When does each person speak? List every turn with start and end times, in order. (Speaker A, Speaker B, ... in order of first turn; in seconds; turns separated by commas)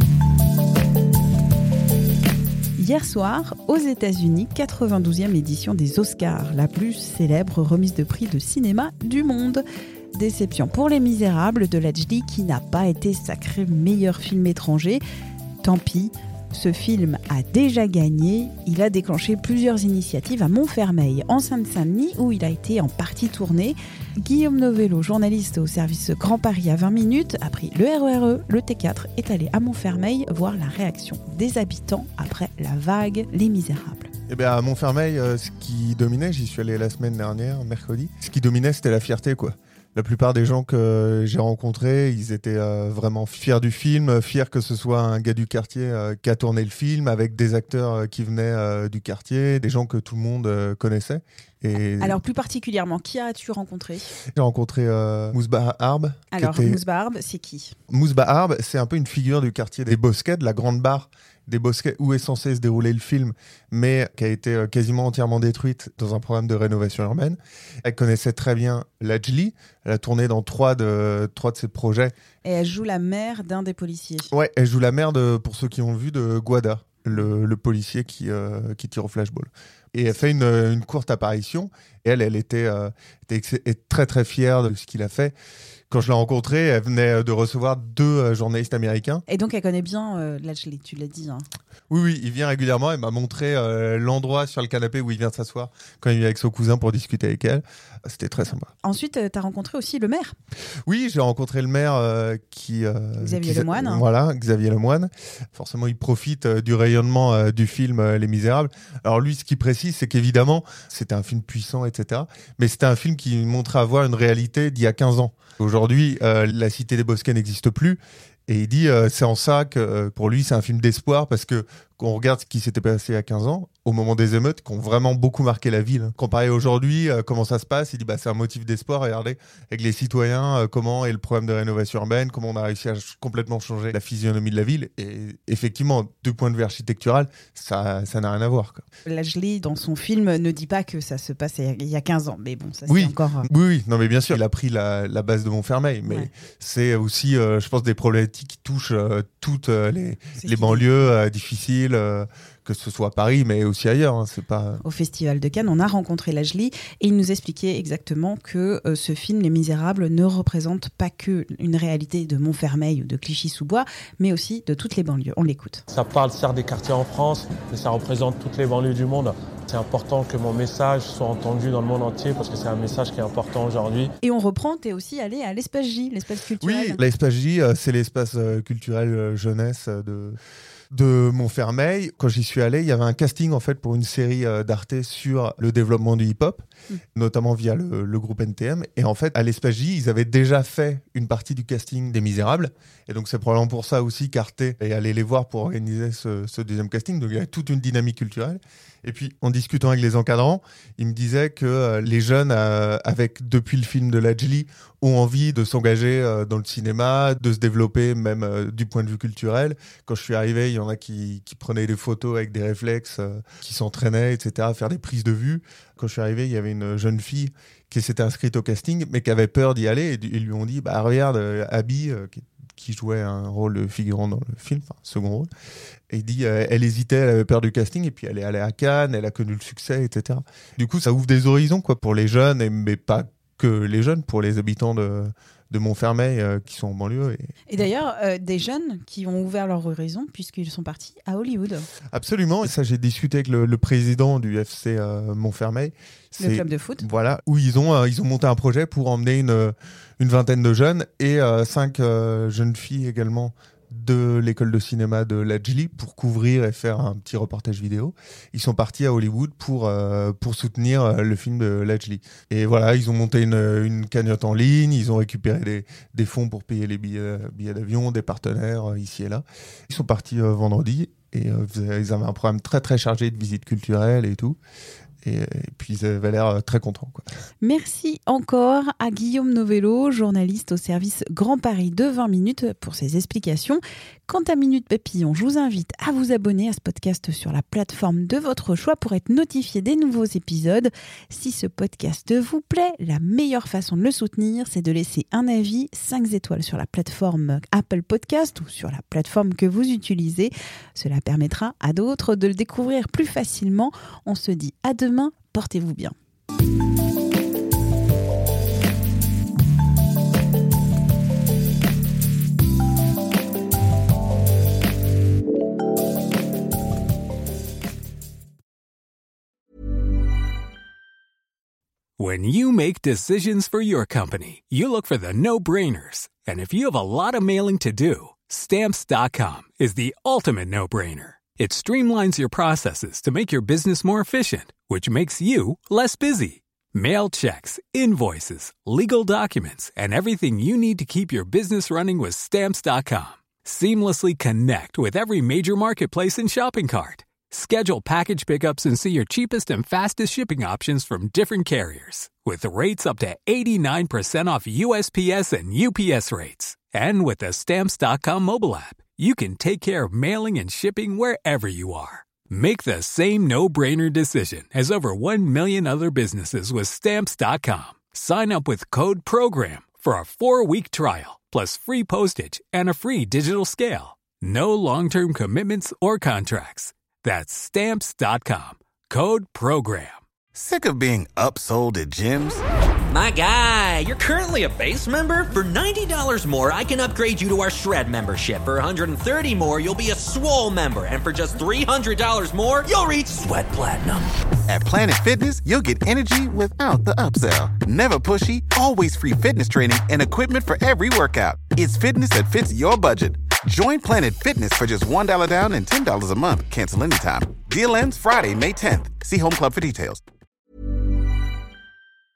Speaker A: 2.8-9.6, Speaker A: 10.1-15.0, Speaker A: 15.6-34.1, Speaker B: 34.3-52.2, Speaker A: 52.0-54.1, Speaker B: 54.4-56.8, Speaker A: 56.3-57.7, Speaker B: 57.9-72.1, Speaker A: 72.4-74.3, Speaker B: 74.3-85.3, Speaker B: 85.9-89.2, Speaker A: 89.3-91.4, Speaker B: 91.9-98.7, Speaker A: 98.8-100.3, Speaker B: 100.8-138.8, Speaker A: 103.2-104.0, Speaker A: 139.1-143.5, Speaker B: 142.9-154.8, Speaker A: 150.3-151.1, Speaker A: 154.8-165.8, Speaker C: 165.9-174.1, Speaker A: 174.2-177.0, Speaker B: 176.6-180.4, Speaker B: 180.9-225.5, Speaker B: 226.1-237.5, Speaker A: 237.7-241.9, Speaker B: 242.1-274.6, Speaker A: 246.4-247.0, Speaker B: 275.2-277.2, Speaker A: 277.6-306.1, Speaker D: 322.2-380.2, Speaker E: 380.6-382.6, Speaker F: 383.1-394.2, Speaker E: 394.7-410.2